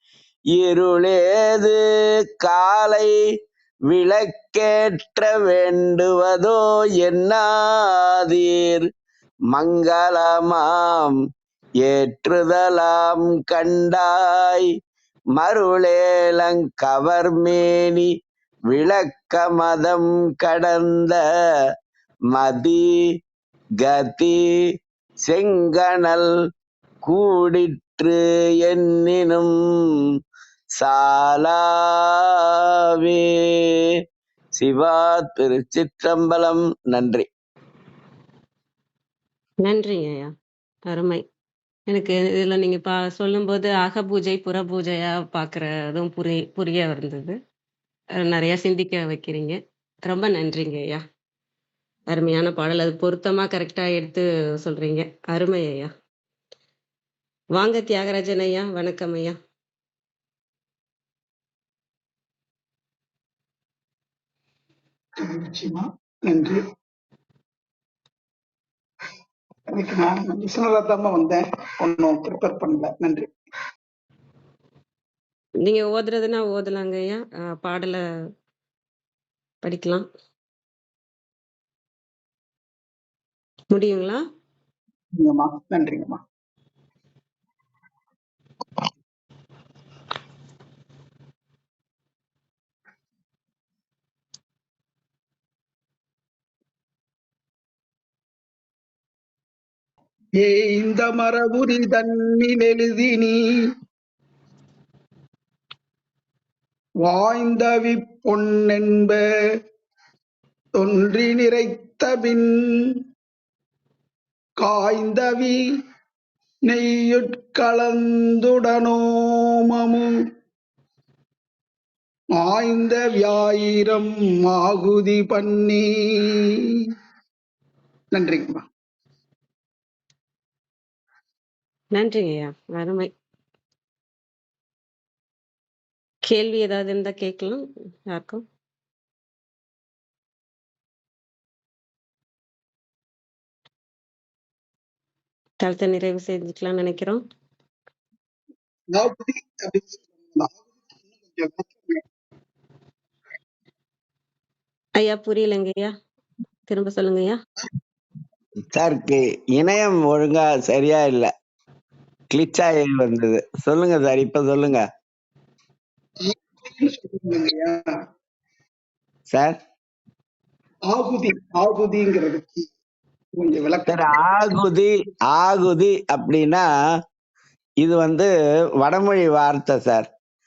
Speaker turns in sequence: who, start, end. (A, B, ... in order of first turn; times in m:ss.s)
0:00.5-0:01.8 A
0:02.4-0:03.2 A
0:03.9-0:08.9 A
0:09.5-0:11.2 A
0:11.8-0:14.7 A
0:15.3-0:18.1 A
0:18.7-0:21.2 A
0:22.3-0:22.9 A
0:23.8-0:24.4 A
0:25.2-0:26.3 A
0:27.0-0:30.1 A
0:30.8-0:33.9 A
0:34.6-0:37.3 A
0:39.6-0:40.3 B
0:40.9-0:41.2 B
0:41.9-0:47.3 B
0:48.2-0:51.0 B
0:52.1-0:55.9 B
0:57.6-0:59.4 B
1:05.2-1:06.6 C
1:09.7-1:13.3 C
1:15.6-1:18.0 B
1:19.6-1:20.0 B
1:23.7-1:24.2 B
1:25.2-1:26.2 C
1:40.3-1:43.4 C
1:47.0-1:49.2 C
1:50.8-1:53.0 C
1:54.6-1:55.6 C
1:56.6-2:00.1 C
2:02.3-2:06.9 C
2:08.1-2:08.6 C
2:11.9-2:13.1 B
2:16.2-2:18.4 B
2:25.6-2:27.2 B
2:28.9-2:32.0 C
2:35.0-2:35.9 B
2:36.7-2:37.4 B
2:38.7-2:41.3 A
2:42.3-2:44.8 A
2:46.2-2:47.8 C
2:49.3-2:49.6 A
2:50.9-2:52.6 C
2:53.4-2:54.2 C
2:53.9-2:56.7 A
2:57.8-2:58.3 A
2:58.8-3:00.1 A